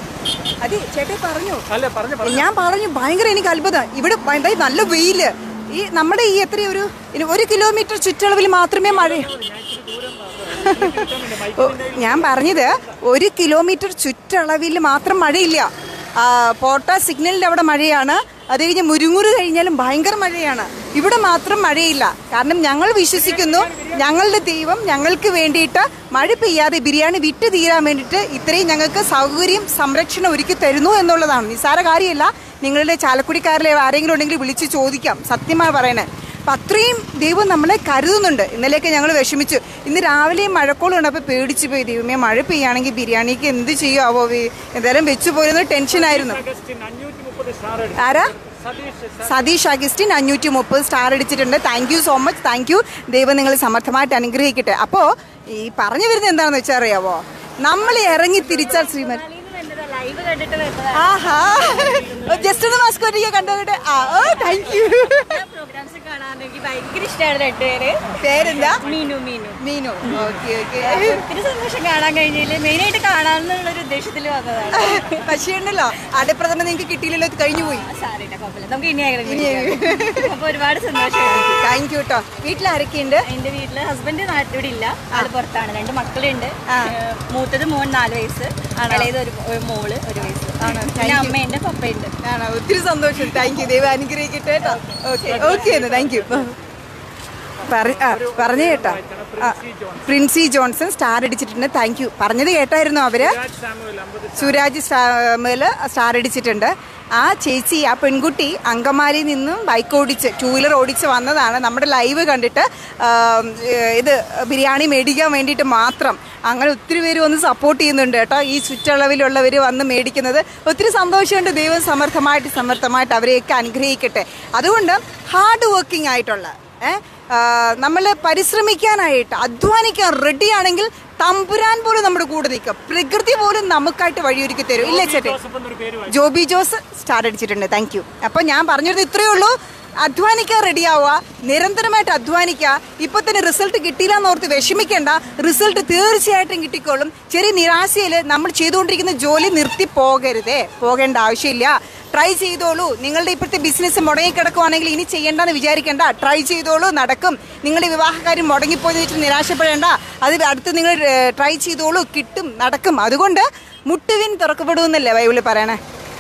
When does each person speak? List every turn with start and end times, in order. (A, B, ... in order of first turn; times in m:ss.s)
0:00.6-0:01.6 A
0:01.7-0:02.5 B
0:02.2-0:09.3 A
0:08.8-0:13.0 B
0:10.6-0:11.0 A
0:11.6-0:46.4 A
0:23.1-0:24.1 B
0:45.9-0:49.5 B
0:48.0-0:48.3 A
0:49.3-0:59.2 A
0:57.7-1:09.6 C
1:00.9-1:05.4 A
1:08.2-1:08.8 A
1:09.6-1:11.2 A
1:10.8-1:15.4 C
1:14.7-1:17.9 A
1:17.5-1:21.7 C
1:19.2-1:20.3 A
1:21.3-1:23.3 A
1:22.3-1:32.1 C
1:26.7-1:26.9 A
1:30.6-1:31.4 A
1:32.2-1:36.5 A
1:33.3-1:33.7 C
1:34.6-1:36.0 C
1:35.2-1:36.5 B
1:37.6-1:40.2 B
1:37.6-1:39.6 A
1:40.1-1:43.4 A
1:43.2-1:44.6 B
1:44.4-2:15.4 A
2:14.8-2:16.1 B
2:16.1-2:45.8 A